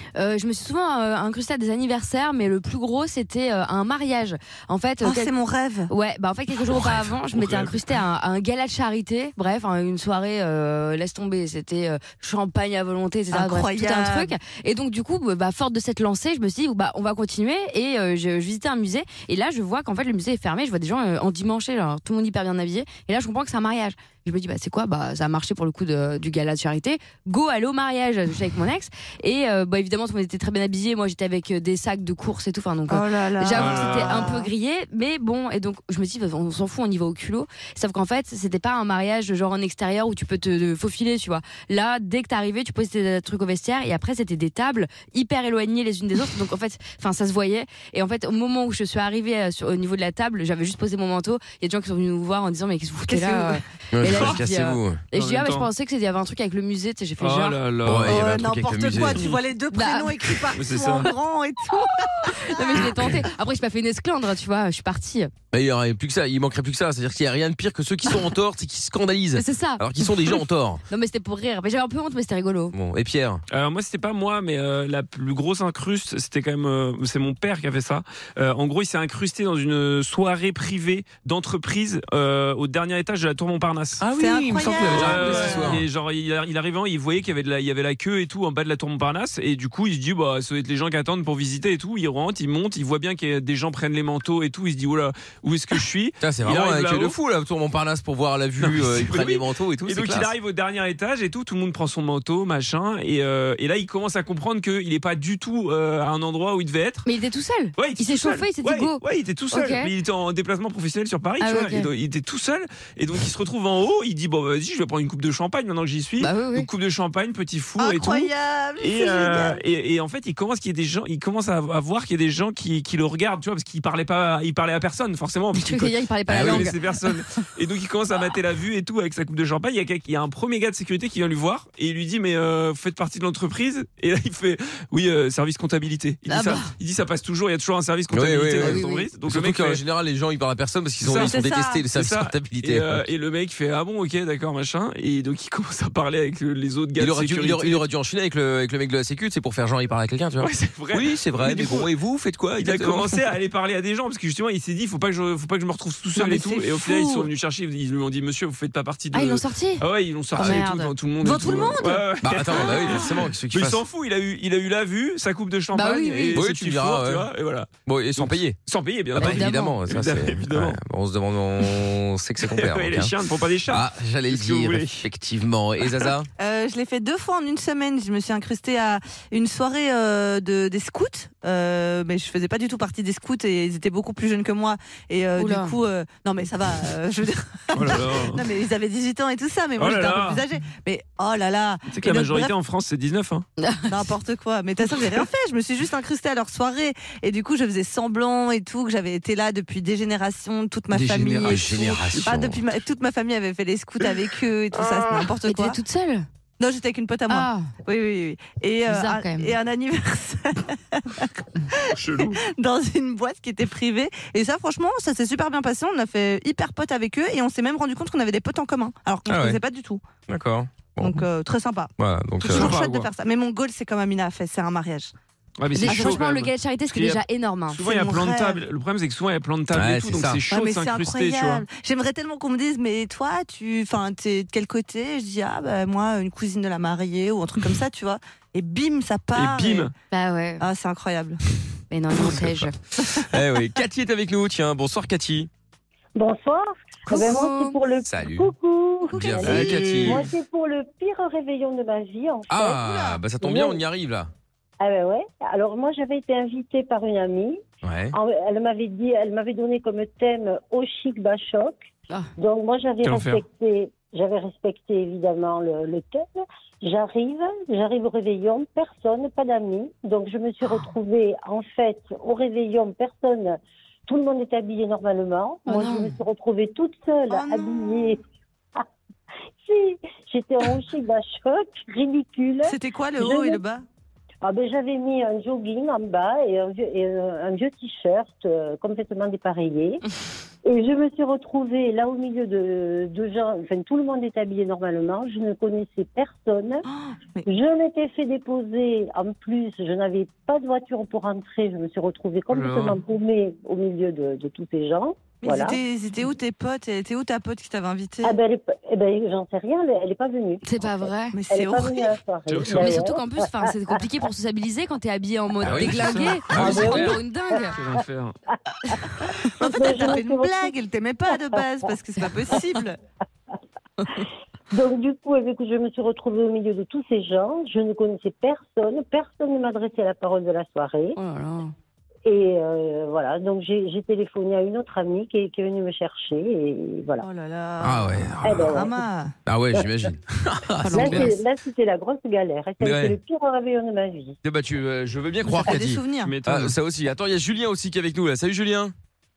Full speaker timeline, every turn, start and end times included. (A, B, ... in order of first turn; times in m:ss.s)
0:00.2-0:05.3 A
0:05.0-0:05.9 B
0:05.9-0:57.6 A
0:06.8-0:07.8 C
0:13.3-0:14.4 B
0:32.9-0:34.5 B
0:33.6-0:34.3 C
0:53.1-0:53.6 B
0:53.9-0:55.0 D
0:55.1-0:55.7 C
0:57.2-0:58.3 C
0:57.8-0:59.2 D
0:58.1-1:02.9 B
0:59.1-0:59.4 C
0:59.7-1:00.2 A
1:00.5-1:01.1 C
1:02.3-1:05.3 A
1:05.5-1:10.8 D
1:09.4-1:12.8 A
1:12.7-1:13.4 D
1:13.5-1:24.0 C
1:24.0-1:25.8 D
1:24.2-1:25.8 B
1:24.8-1:37.2 C
1:36.2-1:40.3 D
1:38.6-1:47.1 C
1:47.1-1:49.0 A
1:47.8-2:19.8 C
1:49.5-1:49.9 A
1:51.4-1:51.9 A
1:56.2-1:56.7 A
1:57.8-1:59.6 B
2:05.6-2:06.8 A
2:06.3-2:06.7 D
2:16.3-2:16.7 A
2:18.1-2:23.0 D
2:18.6-2:19.1 A
2:21.0-2:27.8 C
2:21.1-2:21.8 B
2:27.0-2:33.1 D
2:30.4-2:31.9 C
2:32.6-2:50.8 C
2:36.2-2:37.3 B
2:39.1-2:39.8 A
2:40.4-2:40.9 A
2:41.2-2:42.1 B
2:42.2-2:43.8 D
2:45.7-2:46.4 A
2:46.4-2:47.3 D
2:47.9-2:48.6 D
2:49.2-2:53.1 D
2:49.2-2:49.8 A
2:52.4-2:55.0 C
2:53.7-2:56.3 D
2:56.4-3:12.5 B
3:05.4-3:05.8 A
3:07.7-3:08.4 C
3:09.8-3:10.4 C
3:11.9-3:13.5 C
3:13.6-3:14.0 A
3:13.9-3:25.8 B
3:20.9-3:21.8 C
3:21.4-3:22.6 D
3:25.4-3:26.3 A
3:26.6-3:40.0 B
3:27.3-3:27.7 A
3:28.9-3:29.5 A
3:39.3-3:39.6 D
3:40.3-3:41.2 D
3:41.0-3:45.1 B
3:42.0-3:42.8 D
3:42.5-3:43.1 C
3:45.6-3:51.7 C
3:45.8-3:47.8 A
3:45.8-3:46.2 B
3:47.8-3:48.6 B
3:49.7-3:50.4 D
3:50.5-3:59.9 B
3:59.3-3:59.9 C
4:00.1-4:00.6 A
4:00.6-4:01.4 B
4:01.9-4:02.8 A
4:02.2-4:02.7 D
4:03.3-4:05.5 D
4:06.2-4:13.8 E
4:07.1-4:07.8 A
4:08.1-4:08.5 D
4:09.1-4:10.3 D
4:09.1-4:09.9 B
4:09.5-4:10.2 C
4:12.5-4:14.3 D
4:12.8-4:13.2 B
4:14.8-4:17.6 E
4:17.8-4:18.2 D
4:18.1-4:38.2 E
4:23.0-4:23.4 C
4:35.7-4:36.1 A
4:37.3-4:38.1 B
4:39.6-4:43.6 E
4:42.7-4:43.8 B
4:44.4-4:50.0 E
4:50.6-4:56.9 E
4:56.9-4:57.4 B
4:57.4-5:05.8 E
5:02.5-5:03.0 C
5:05.4-5:08.4 B
5:08.2-5:13.7 E
5:10.6-5:11.4 A
5:11.3-5:12.2 B
5:12.5-5:13.0 C
5:12.7-5:17.8 A
5:15.6-5:17.1 C
5:15.6-5:17.2 D
5:17.7-5:18.4 C
5:18.5-5:19.0 E
5:19.6-5:23.0 B
5:19.6-5:20.7 E
5:21.3-5:21.9 E
5:22.5-5:22.8 E
5:24.7-5:31.2 E
5:31.2-5:31.7 A
5:32.2-5:37.2 E
5:37.2-5:39.3 B
5:37.8-5:38.8 D
5:38.4-5:39.0 E
5:39.5-5:41.4 D
5:40.8-5:41.4 A
5:41.0-5:44.4 E
5:42.8-5:43.2 D
5:44.4-5:48.9 D
5:45.5-5:46.3 B
5:46.2-5:46.8 C